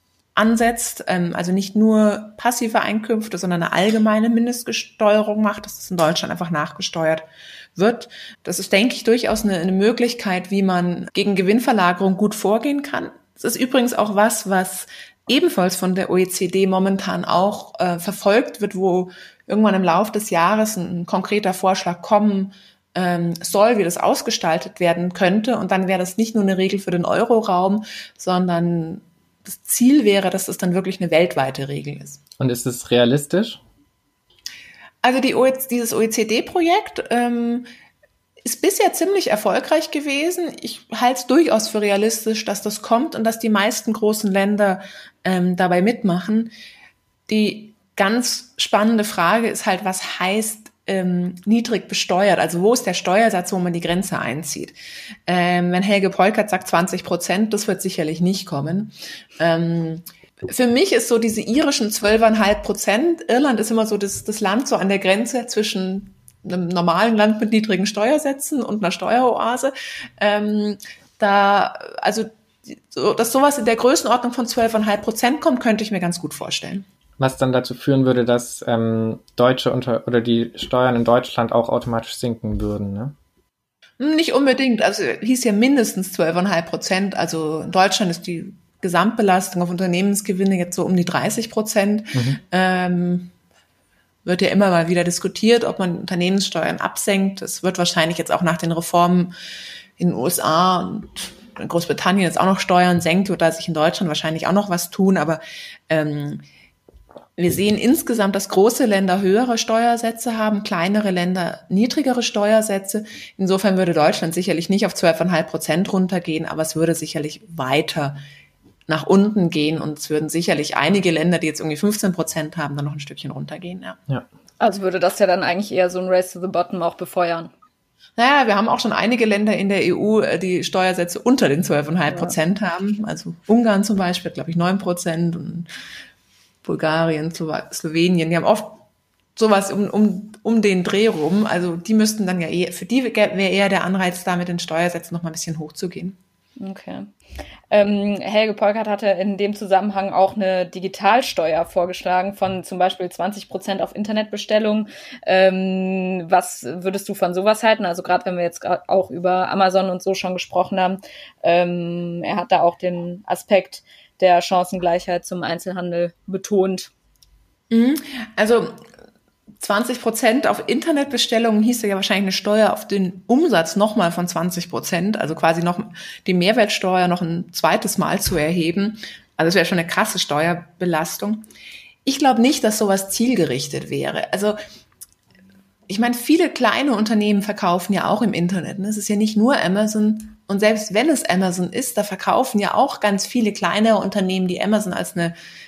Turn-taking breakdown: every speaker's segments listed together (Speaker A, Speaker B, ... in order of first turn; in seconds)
Speaker A: 0.3-7.2, 7.8-32.2, 35.0-37.6, 38.4-46.5, 47.3-54.7, 55.3-76.8, 84.0-93.3, 94.2-99.3, 100.0-106.4, 107.4-118.2, 118.9-124.0, 128.2-135.7, 136.6-138.8, 139.3-146.2, 167.7-168.8, 169.6-181.4, 182.0-184.6, 185.9-195.3
Speaker B: 32.4-33.6, 77.2-83.1, 92.1-92.4
Speaker C: 124.6-127.5, 146.6-147.1, 147.7-166.9